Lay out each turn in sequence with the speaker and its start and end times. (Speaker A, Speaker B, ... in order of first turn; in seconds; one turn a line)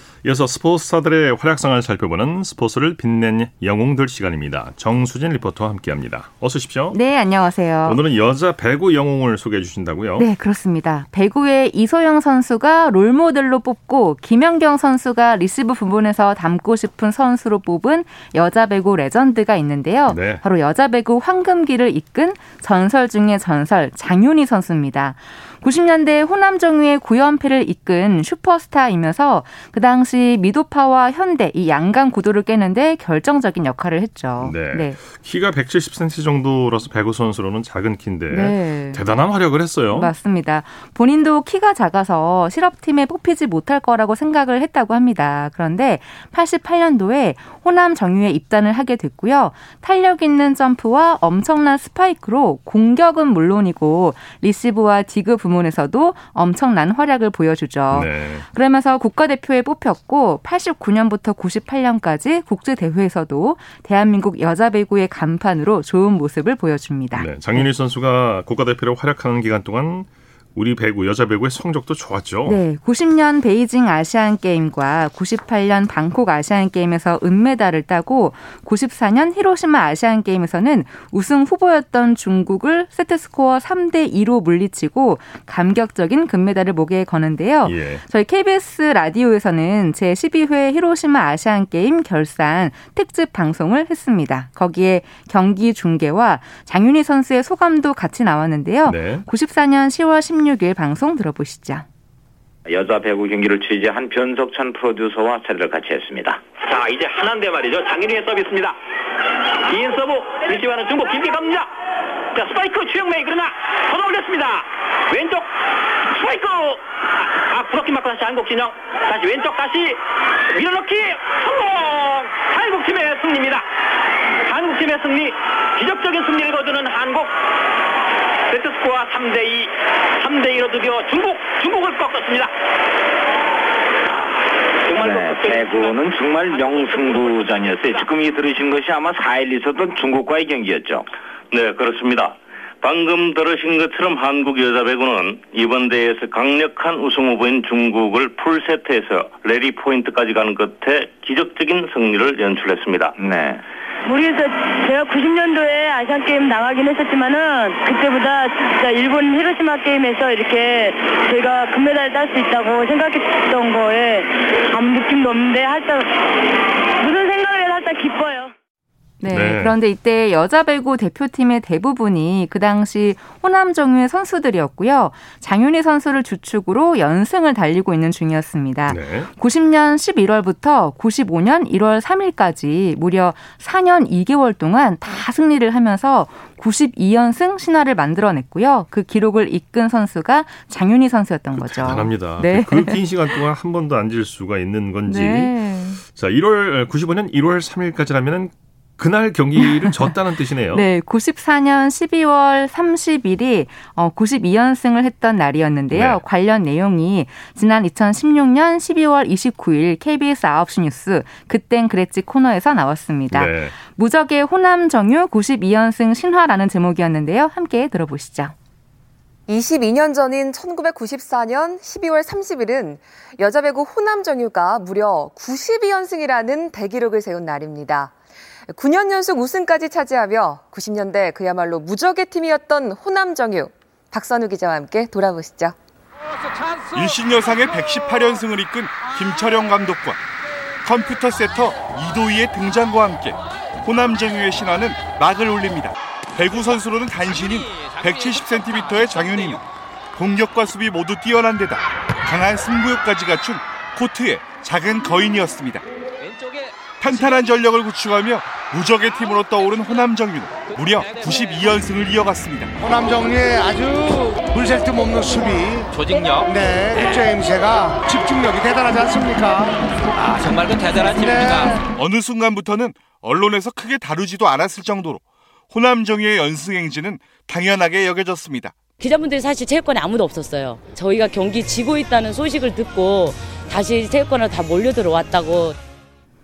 Speaker A: 0.2-7.0
Speaker B: 6.9-8.0
Speaker A: 7.8-10.3
Speaker B: 10.2-35.0
Speaker A: 20.1-20.4
Speaker A: 34.4-40.1
Speaker B: 38.3-39.1
Speaker B: 39.9-67.6
Speaker A: 57.9-58.5
Speaker A: 67.1-72.6
Speaker B: 72.5-101.9
Speaker A: 87.6-88.0
Speaker A: 98.9-99.3
Speaker C: 102.7-106.5
Speaker D: 106.6-108.8
Speaker D: 109.7-111.7
Speaker D: 112.3-115.5
Speaker D: 116.1-116.8
Speaker D: 117.5-120.0
Speaker D: 120.5-123.6
Speaker D: 124.4-127.3
Speaker D: 128.5-132.5
Speaker D: 134.9-137.5
Speaker C: 134.9-141.1
Speaker E: 141.5-153.2
Speaker C: 153.2-153.6
Speaker F: 154.1-168.5
Speaker B: 169.2-193.4
Speaker A: 169.3-169.8
Speaker A: 178.9-179.3
Speaker A: 191.5-200.9
Speaker B: 195.1-196.0
Speaker B: 199.6-200.2
Speaker B: 200.7-218.6
Speaker A: 205.9-206.2
Speaker A: 213.3-213.8
Speaker G: 219.5-228.2
Speaker G: 228.7-235.8
Speaker H: 236.9-240.2
Speaker H: 240.8-255.8
Speaker I: 247.4-249.6
Speaker I: 256.2-257.4
Speaker H: 257.0-262.7
Speaker I: 261.0-261.7
Speaker J: 262.8-265.8
Speaker I: 265.9-267.1
Speaker J: 266.5-269.7
Speaker I: 270.1-271.8
Speaker H: 271.9-278.8
Speaker K: 279.0-285.8